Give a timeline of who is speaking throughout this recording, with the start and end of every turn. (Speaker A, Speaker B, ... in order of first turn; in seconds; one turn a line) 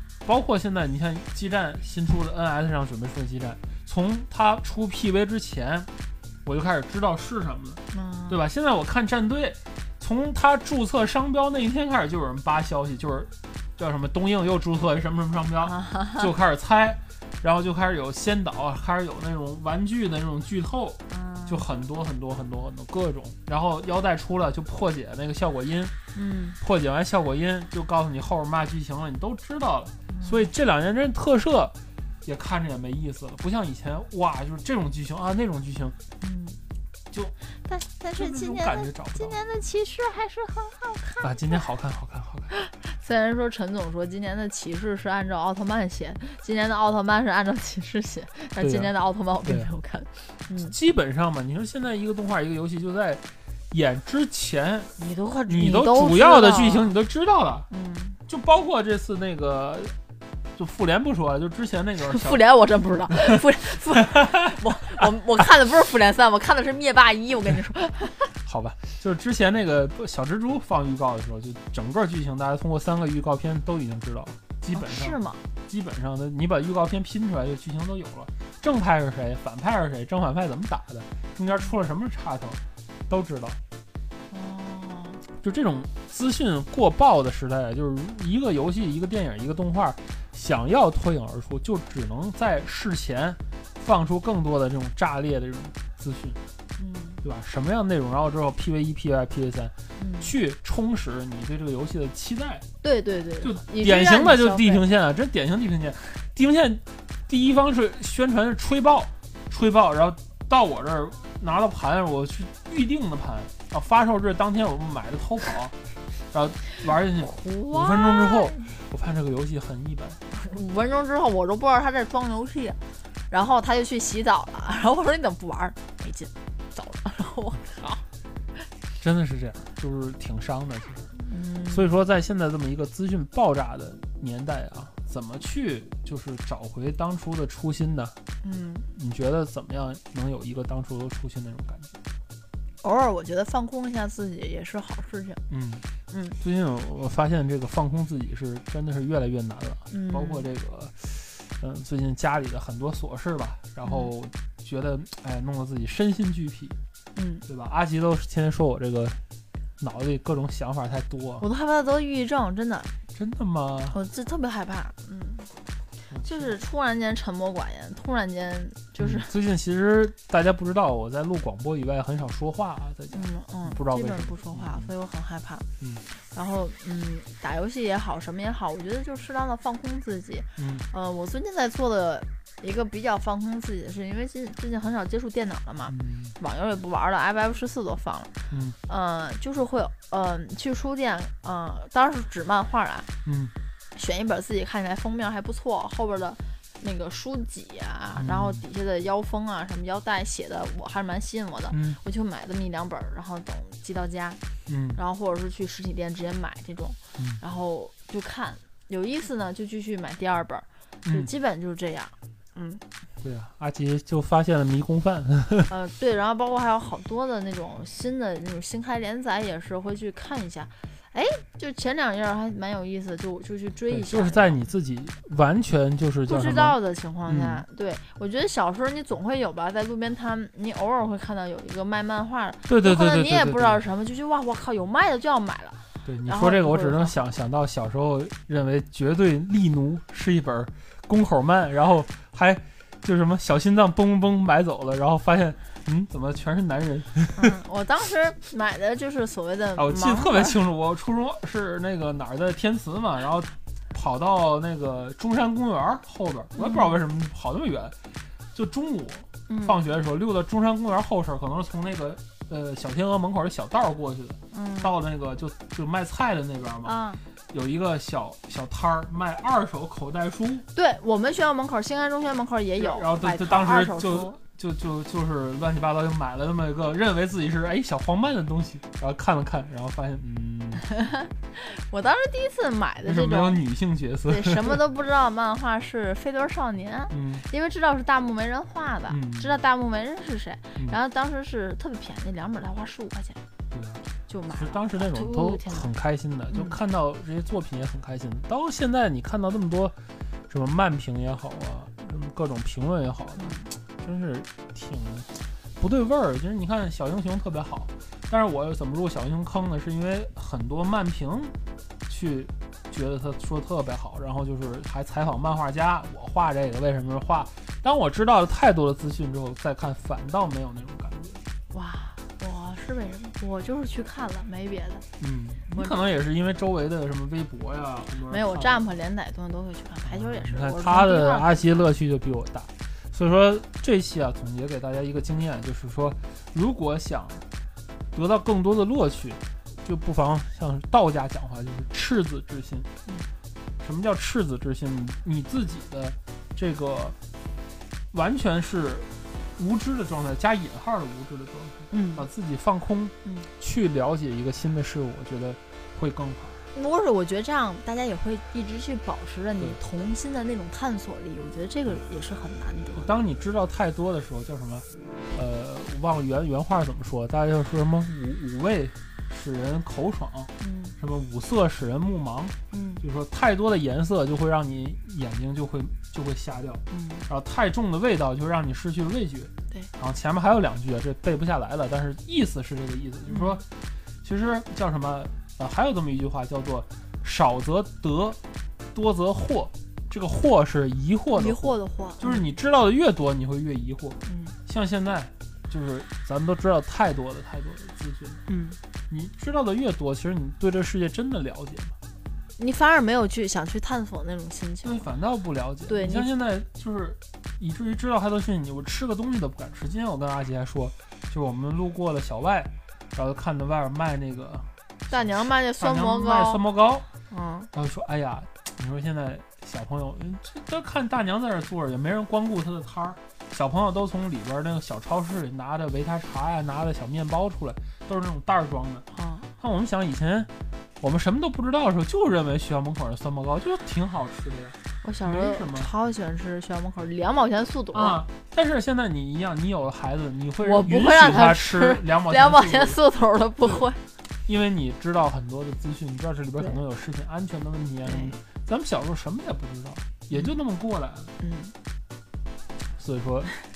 Speaker A: 0.2-5.9
Speaker A: 6.4-25.9
Speaker B: 7.9-8.4
Speaker B: 15.6-16.3
Speaker B: 21.1-21.6
Speaker B: 26.1-26.6
Speaker A: 26.6-36.0
Speaker B: 30.1-30.5
Speaker B: 36.2-36.6
Speaker B: 37.5-41.5
Speaker A: 38.1-39.4
Speaker A: 41.2-42.5
Speaker B: 42.5-50.7
Speaker A: 48.6-48.9
Speaker A: 49.4-49.7
Speaker A: 50.5-57.7
Speaker B: 55.0-56.9
Speaker B: 57.7-58.2
Speaker A: 58.2-59.9
Speaker A: 60.5-62.4
Speaker B: 62.0-68.3
Speaker A: 68.4-83.6
Speaker B: 74.7-75.4
Speaker B: 84.3-85.2
Speaker A: 85.4-96.4
Speaker B: 96.8-97.2
Speaker A: 97.2-102.6
Speaker B: 100.0-100.3
Speaker B: 102.8-104.8
Speaker A: 103.4-115.8
Speaker A: 116.3-120.2
Speaker B: 117.2-118.7
Speaker B: 120.3-128.0
Speaker A: 129.0-131.1
Speaker B: 131.2-132.0
Speaker A: 131.7-138.2
Speaker B: 138.4-138.9
Speaker A: 138.9-142.0
Speaker B: 142.8-145.4
Speaker A: 145.5-145.9
Speaker B: 146.1-146.4
Speaker A: 146.4-156.8
Speaker B: 149.9-150.4
Speaker B: 153.8-154.1
Speaker B: 157.1-157.4
Speaker A: 157.4-159.2
Speaker A: 159.8-161.4
Speaker B: 161.4-162.9
Speaker A: 163.1-164.0
Speaker B: 163.9-165.5
Speaker A: 166.1-166.6
Speaker B: 166.2-169.3
Speaker A: 169.0-174.9
Speaker B: 173.1-188.3
Speaker A: 175.8-176.0
Speaker A: 180.6-180.9
Speaker A: 185.9-186.3
Speaker A: 188.5-188.8
Speaker B: 188.9-193.1
Speaker A: 193.2-193.5
Speaker B: 193.9-204.4
Speaker A: 198.2-198.6
Speaker A: 201.7-202.0
Speaker A: 204.7-205.0
Speaker B: 204.9-212.8
Speaker A: 211.0-211.3
Speaker A: 213.2-215.7
Speaker B: 215.7-224.6
Speaker A: 223.9-227.6
Speaker B: 226.2-237.2
Speaker A: 232.7-233.8
Speaker A: 236.0-247.6
Speaker B: 247.3-250.6
Speaker A: 249.8-257.9
Speaker B: 256.5-256.9
Speaker A: 258.5-267.0
Speaker B: 259.5-259.8
Speaker B: 264.5-264.9
Speaker B: 266.8-267.2
Speaker A: 267.5-270.6
Speaker B: 270.7-274.4
Speaker A: 272.8-280.8
Speaker B: 280.9-283.6
Speaker A: 283.0-284.8
Speaker B: 284.3-293.4
Speaker A: 287.1-287.4
Speaker A: 289.1-289.6
Speaker A: 293.7-299.9
Speaker B: 294.3-295.9
Speaker B: 296.5-296.8
Speaker A: 300.5-311.5
Speaker B: 303.4-303.7
Speaker A: 312.1-321.4
Speaker B: 321.7-325.1
Speaker A: 325.2-328.9
Speaker B: 328.3-331.7
Speaker A: 330.1-337.4
Speaker A: 338.1-342.9
Speaker A: 343.8-347.1
Speaker A: 348.1-356.6
Speaker B: 351.9-352.3
Speaker B: 356.7-363.1
Speaker A: 362.9-383.6
Speaker B: 370.6-371.0
Speaker B: 372.7-373.0
Speaker B: 376.9-377.3
Speaker B: 383.3-383.6
Speaker A: 384.2-388.4
Speaker A: 388.9-398.4
Speaker B: 391.3-392.4
Speaker B: 394.2-394.6
Speaker B: 398.5-398.8
Speaker A: 399.1-401.9
Speaker B: 402.6-405.1
Speaker A: 404.8-417.1
Speaker B: 405.9-406.3
Speaker B: 415.1-416.6
Speaker B: 417.3-417.7
Speaker A: 417.7-429.0
Speaker B: 429.1-429.5
Speaker A: 429.6-435.9
Speaker B: 435.0-438.2
Speaker A: 437.9-443.0
Speaker B: 440.6-444.0
Speaker A: 444.4-451.3
Speaker B: 448.1-448.4
Speaker B: 450.3-450.6
Speaker B: 451.4-451.7
Speaker A: 453.0-453.5